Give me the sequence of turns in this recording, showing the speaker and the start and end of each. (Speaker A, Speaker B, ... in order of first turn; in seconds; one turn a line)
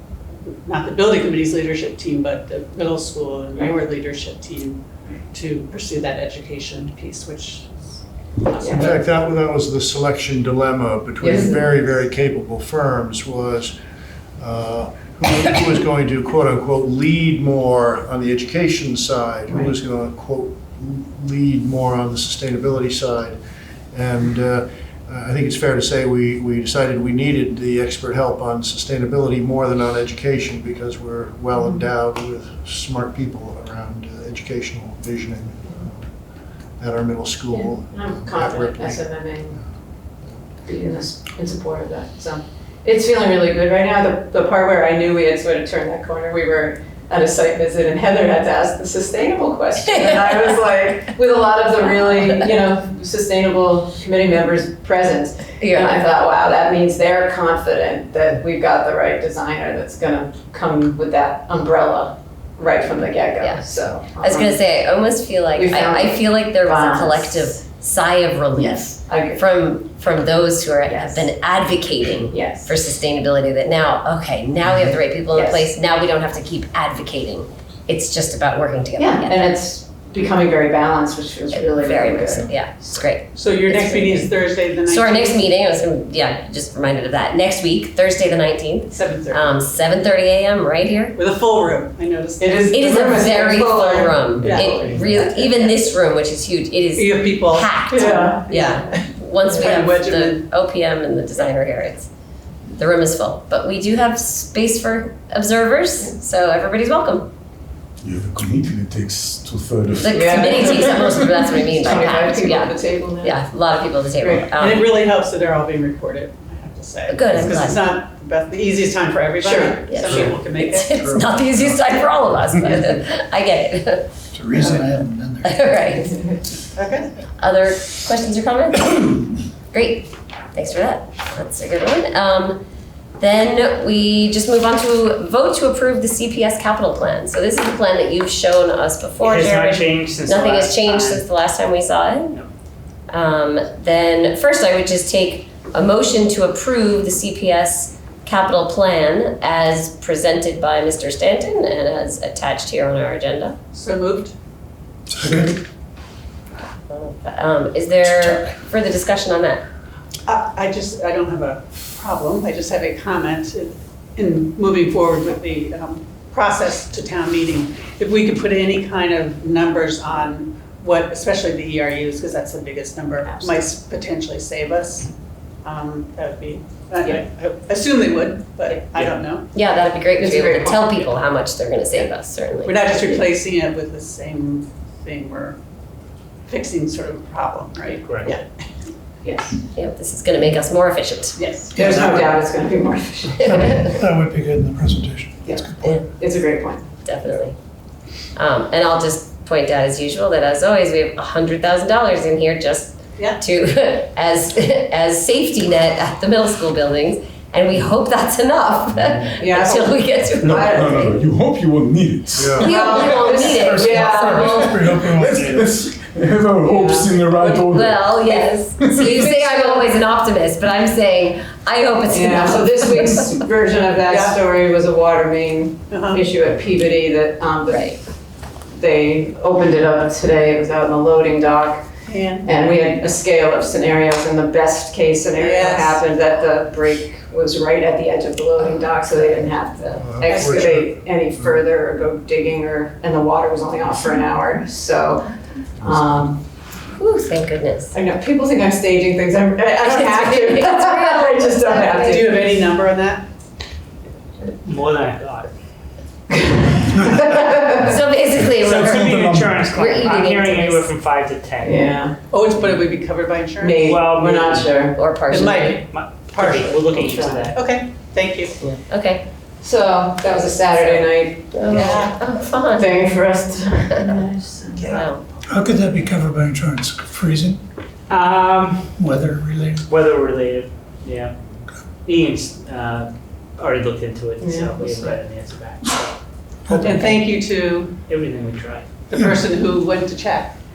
Speaker A: 0.6-8.9
Speaker B: 8.6-8.9
Speaker C: 8.6-13.8
Speaker B: 11.2-11.6
Speaker C: 14.4-23.4
Speaker C: 23.9-36.2
Speaker B: 31.5-31.8
Speaker C: 36.7-39.7
Speaker B: 37.5-39.6
Speaker B: 40.6-64.6
Speaker D: 55.6-56.0
Speaker D: 63.4-63.7
Speaker D: 64.2-79.6
Speaker B: 65.5-67.6
Speaker B: 68.5-69.5
Speaker B: 70.8-71.3
Speaker B: 72.3-72.8
Speaker B: 75.3-75.7
Speaker B: 79.0-82.5
Speaker D: 81.5-91.2
Speaker A: 83.3-85.5
Speaker A: 88.9-89.6
Speaker A: 91.1-93.5
Speaker B: 92.4-95.0
Speaker D: 92.7-102.1
Speaker E: 94.4-95.2
Speaker A: 94.4-94.8
Speaker A: 96.9-100.4
Speaker B: 97.9-98.5
Speaker D: 102.8-107.3
Speaker F: 108.0-111.6
Speaker D: 110.0-114.9
Speaker B: 110.1-111.0
Speaker B: 111.6-113.4
Speaker A: 114.2-121.0
Speaker D: 117.1-117.8
Speaker B: 119.4-120.1
Speaker D: 119.9-124.1
Speaker C: 120.0-120.4
Speaker C: 120.9-121.8
Speaker G: 124.3-125.5
Speaker D: 125.4-126.2
Speaker A: 126.7-127.1
Speaker D: 127.4-132.6
Speaker D: 133.2-142.3
Speaker E: 139.2-141.2
Speaker D: 143.1-153.6
Speaker A: 153.7-154.3
Speaker G: 155.1-155.5
Speaker D: 156.9-159.6
Speaker A: 160.3-175.1
Speaker A: 175.6-179.5
Speaker D: 179.5-183.2
Speaker B: 180.2-180.8
Speaker E: 180.8-181.1
Speaker A: 182.6-185.6
Speaker A: 186.5-188.6
Speaker E: 188.1-188.3
Speaker B: 189.2-189.6
Speaker D: 189.7-191.4
Speaker A: 191.4-191.9
Speaker B: 191.7-193.9
Speaker G: 191.8-192.2
Speaker D: 193.3-194.0
Speaker G: 193.5-195.9
Speaker B: 195.4-196.9
Speaker D: 197.0-197.5
Speaker D: 198.3-211.2
Speaker B: 209.3-211.1
Speaker F: 210.4-219.2
Speaker C: 212.3-212.7
Speaker D: 212.5-214.8
Speaker B: 212.6-215.0
Speaker G: 213.6-215.4
Speaker E: 215.2-215.7
Speaker B: 216.6-217.2
Speaker D: 217.4-223.4
Speaker B: 219.0-219.9
Speaker B: 222.1-227.9
Speaker A: 224.1-224.4
Speaker A: 225.9-226.2
Speaker D: 227.7-228.0
Speaker B: 228.7-231.8
Speaker A: 232.1-232.8
Speaker B: 232.4-246.4
Speaker A: 235.3-236.0
Speaker C: 239.9-241.7
Speaker A: 240.2-240.7
Speaker C: 245.9-246.1
Speaker D: 246.9-248.0
Speaker B: 247.9-252.5
Speaker D: 249.8-252.3
Speaker A: 252.0-253.2
Speaker E: 254.6-255.5
Speaker B: 256.3-258.0
Speaker D: 257.3-260.9
Speaker E: 258.5-261.9
Speaker G: 259.1-259.6
Speaker B: 261.6-262.2
Speaker A: 262.3-263.9
Speaker B: 263.6-265.0
Speaker E: 263.8-264.9
Speaker D: 264.9-265.8
Speaker A: 265.3-268.6
Speaker E: 265.8-267.6
Speaker D: 268.6-269.2
Speaker B: 269.6-275.1
Speaker D: 271.5-273.0
Speaker A: 271.7-272.2
Speaker D: 274.9-275.2
Speaker G: 275.5-277.6
Speaker E: 278.1-279.1
Speaker G: 279.0-279.8
Speaker E: 279.9-281.3
Speaker E: 282.0-287.0
Speaker B: 284.4-285.1
Speaker G: 286.6-287.1
Speaker A: 286.8-288.0
Speaker E: 288.1-288.9
Speaker A: 289.1-290.5
Speaker G: 289.1-289.4